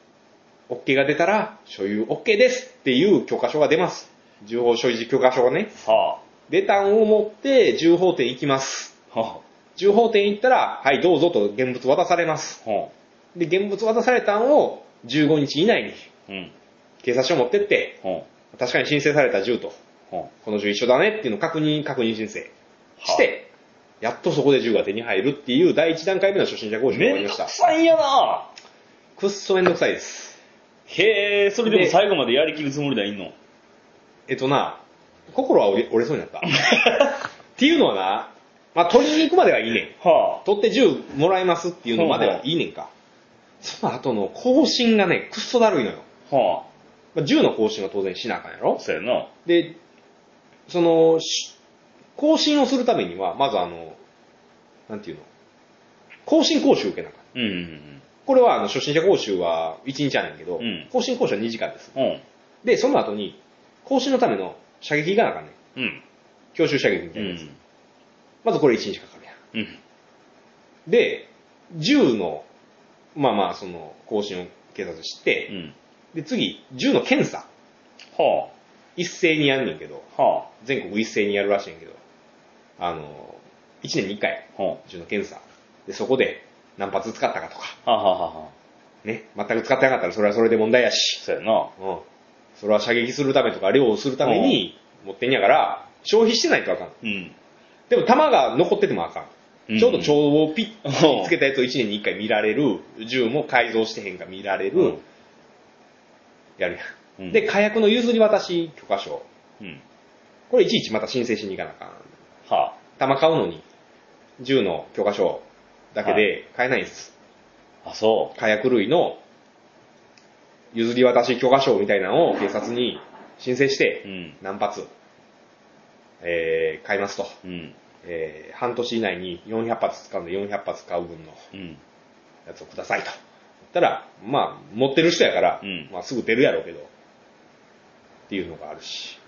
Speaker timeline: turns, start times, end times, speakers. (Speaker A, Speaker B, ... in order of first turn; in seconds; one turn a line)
Speaker A: 0.7-5.7
Speaker B: 5.8-6.2
Speaker A: 6.5-8.9
Speaker B: 9.1-9.4
Speaker A: 9.8-12.6
Speaker B: 12.6-12.9
Speaker A: 13.3-16.1
Speaker B: 16.3-16.5
Speaker A: 17.0-18.0
Speaker A: 18.5-19.8
Speaker A: 20.4-22.5
Speaker B: 23.0-23.3
Speaker A: 23.1-23.5
Speaker A: 24.0-27.5
Speaker B: 26.9-28.5
Speaker A: 29.2-30.4
Speaker B: 30.9-33.4
Speaker A: 31.7-32.0
Speaker A: 34.3-36.5
Speaker B: 36.5-37.2
Speaker A: 37.6-42.9
Speaker B: 40.0-40.4
Speaker B: 41.9-42.5
Speaker A: 43.6-46.0
Speaker B: 46.3-46.7
Speaker A: 47.1-48.8
Speaker B: 48.8-49.3
Speaker A: 49.5-49.8
Speaker A: 50.7-51.5
Speaker A: 52.2-54.0
Speaker A: 54.9-55.3
Speaker A: 56.3-57.2
Speaker B: 57.3-58.0
Speaker A: 58.3-61.9
Speaker B: 60.6-60.9
Speaker B: 62.0-62.2
Speaker A: 62.6-65.6
Speaker B: 65.8-66.0
Speaker A: 66.5-67.5
Speaker B: 67.2-67.6
Speaker A: 68.4-69.4
Speaker B: 69.5-69.8
Speaker A: 70.9-72.5
Speaker A: 73.2-75.5
Speaker B: 75.5-75.8
Speaker A: 76.1-77.5
Speaker B: 78.1-78.5
Speaker A: 79.0-80.1
Speaker B: 80.2-80.5
Speaker A: 80.6-82.0
Speaker A: 82.8-87.8
Speaker B: 87.8-88.5
Speaker A: 89.0-91.2
Speaker B: 91.2-91.7
Speaker A: 91.8-92.0
Speaker A: 92.6-97.0
Speaker B: 94.2-94.7
Speaker B: 97.0-97.3
Speaker A: 97.9-105.0
Speaker B: 99.7-100.2
Speaker B: 100.8-101.3
Speaker B: 104.8-105.0
Speaker A: 106.6-109.3
Speaker B: 107.2-107.5
Speaker A: 110.5-112.1
Speaker B: 112.5-112.8
Speaker A: 113.0-113.6
Speaker A: 114.4-117.1
Speaker B: 116.0-116.3
Speaker B: 117.8-118.4
Speaker A: 118.4-119.2
Speaker A: 120.7-124.9
Speaker B: 124.0-124.4
Speaker A: 126.2-127.4
Speaker B: 127.4-127.8
Speaker A: 128.0-131.5
Speaker B: 131.5-131.8
Speaker A: 132.5-133.2
Speaker A: 133.7-136.9
Speaker B: 135.6-135.9
Speaker A: 138.3-139.2